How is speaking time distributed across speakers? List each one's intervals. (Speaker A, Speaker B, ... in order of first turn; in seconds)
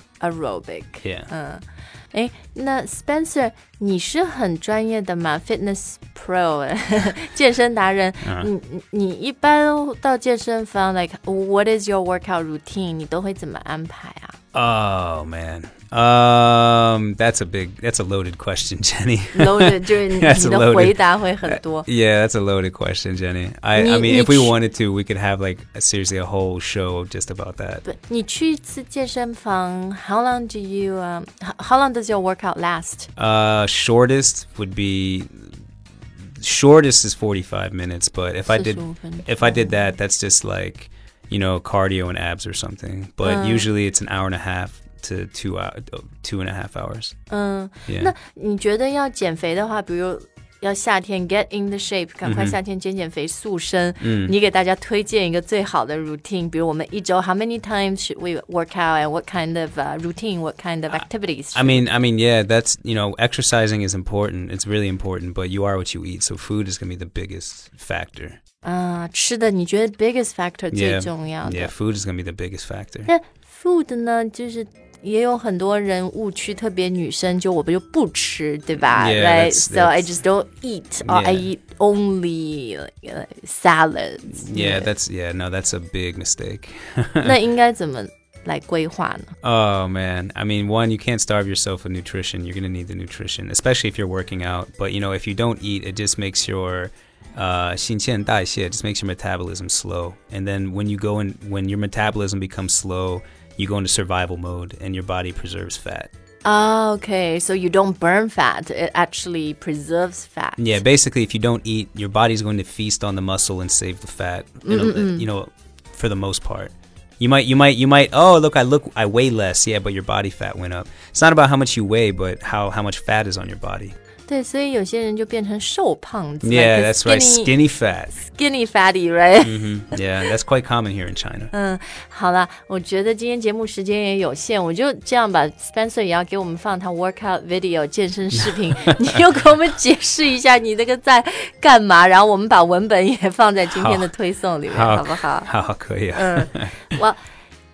Speaker A: 0.2-14.3, 19.3-21.9, 23.7-24.5, 27.9-33.1, 38.5-39.8, 43.2-43.7, 47.3-61.8, 68.6-71.7, 73.1-84.9, 87.2-89.3, 106.5-110.8, 114.6-115.3, 124.3-127.5, 128.2-129.7, 131.5-145.5, 146.2-147.2
Speaker B: 1.0-1.3, 8.2-8.5, 14.5-27.9, 33.2-35.5, 36.4-47.1, 47.9-48.1, 52.2-52.6, 54.0-54.3, 61.5-68.4, 70.7-73.1, 78.9-80.1, 81.0-81.5, 84.3-87.4, 89.4-106.1, 110.6-123.9, 126.4-128.2, 129.4-131.5, 138.5-139.1, 143.7-144.1, 144.7-146.8